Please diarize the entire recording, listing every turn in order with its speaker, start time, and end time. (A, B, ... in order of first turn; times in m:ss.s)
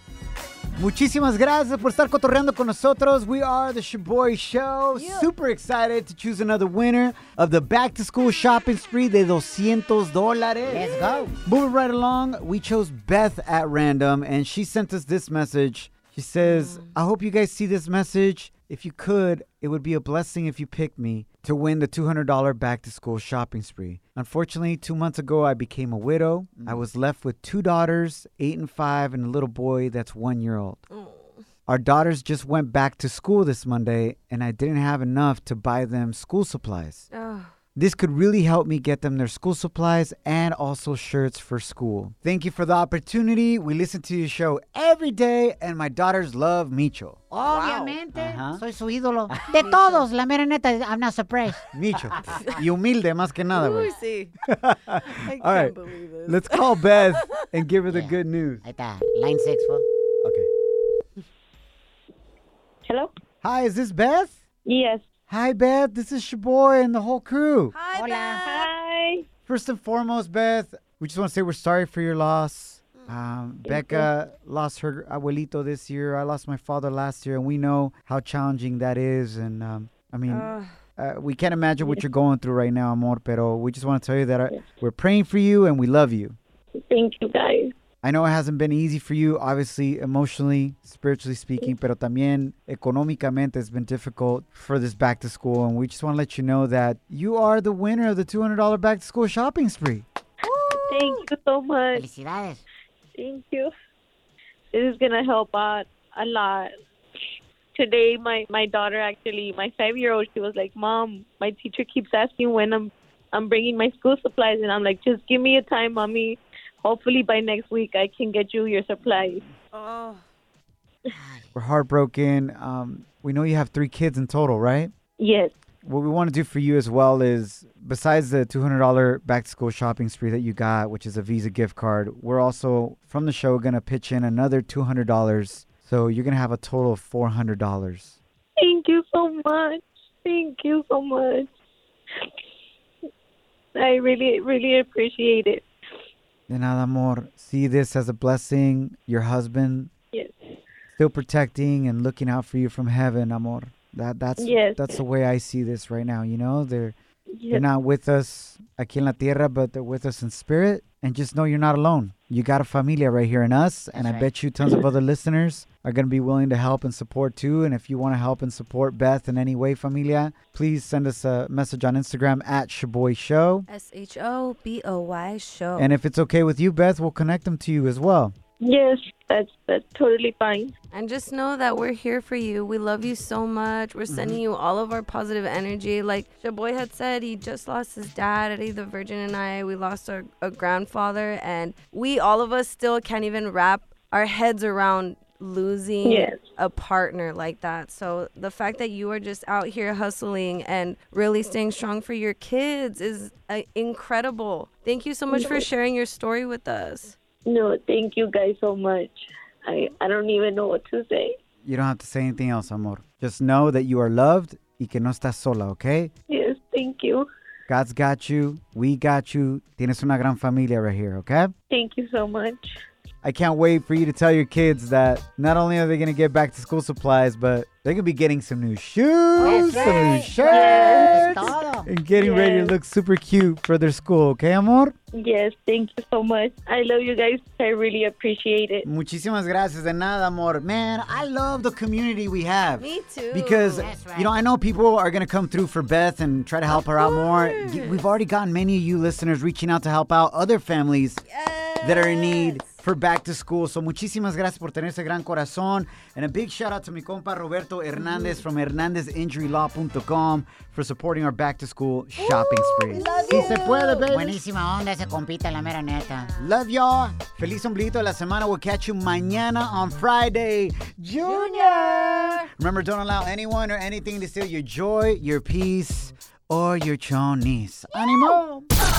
0:00.8-0:10.8 A
0:05.0-0:05.3 B
0:10.7-0:11.4 C
0:11.4-0:30.8 A
0:16.4-0:17.0 B
0:30.9-0:31.4 B
0:31.7-0:37.1 A
0:37.1-0:37.5 B
0:37.8-0:47.2 A
0:47.3-0:51.6 C
0:47.5-0:48.0 B
0:48.2-0:48.6 A
0:49.5-0:50.1 B
0:51.7-0:53.9 A
0:53.5-0:54.4 B
0:54.5-0:55.7 A
0:55.0-0:57.4 B
0:56.3-0:58.6 A
0:57.9-0:59.8 C
1:00.2-1:00.5 A
1:03.4-1:04.4 A
1:04.7-1:05.0 D
1:05.3-1:07.7 A
1:07.7-1:08.7 B
1:07.9-1:08.5 C
1:08.4-1:09.2 D
1:09.5-1:26.4 A
1:13.7-1:14.1 D
1:20.3-1:20.8 B
1:26.9-1:27.7 D
1:28.0-1:40.0 A
1:40.7-1:42.0 D
1:41.9-1:42.6 C
1:43.2-1:43.7 D
1:44.7-1:46.7 D
1:47.8-1:59.4 D
1:59.7-2:00.2 B
2:01.1-2:01.5 C
2:01.6-2:04.9 A
2:05.2-2:05.5 D
2:05.8-2:18.2 A
2:18.6-2:21.5 D
2:23.8-2:25.6 D
2:26.5-2:29.9 A
2:31.0-2:37.0 A
2:34.4-2:35.0 D
2:37.4-2:37.7 D
2:37.5-2:53.7 A
2:43.9-2:44.3 C
2:53.7-2:55.9 B
2:55.8-2:58.3 A
2:58.6-3:00.7 D
3:00.9-3:27.2 B
3:04.1-3:04.4 A
3:16.0-3:16.4 D
3:25.3-3:25.7 D
3:27.5-3:31.4 D
3:31.6-3:36.1 A
3:36.3-3:37.3 D
3:37.7-3:41.5 A
3:41.7-3:42.7 D
3:43.2-3:54.9 A
3:49.4-3:51.9 C
3:50.5-3:51.3 D
3:52.2-3:52.8 D
3:55.1-3:58.9 D
3:58.8-4:11.2 A
4:02.8-4:03.9 B
4:03.8-4:04.4 C
4:06.7-4:08.0 B
4:11.3-4:12.7 B
4:11.8-4:24.4 A
4:18.0-4:18.4 B
4:22.2-4:24.2 B
4:24.1-4:26.4 C
4:26.0-4:26.4 B
4:26.4-4:38.7 A
4:31.2-4:32.5 B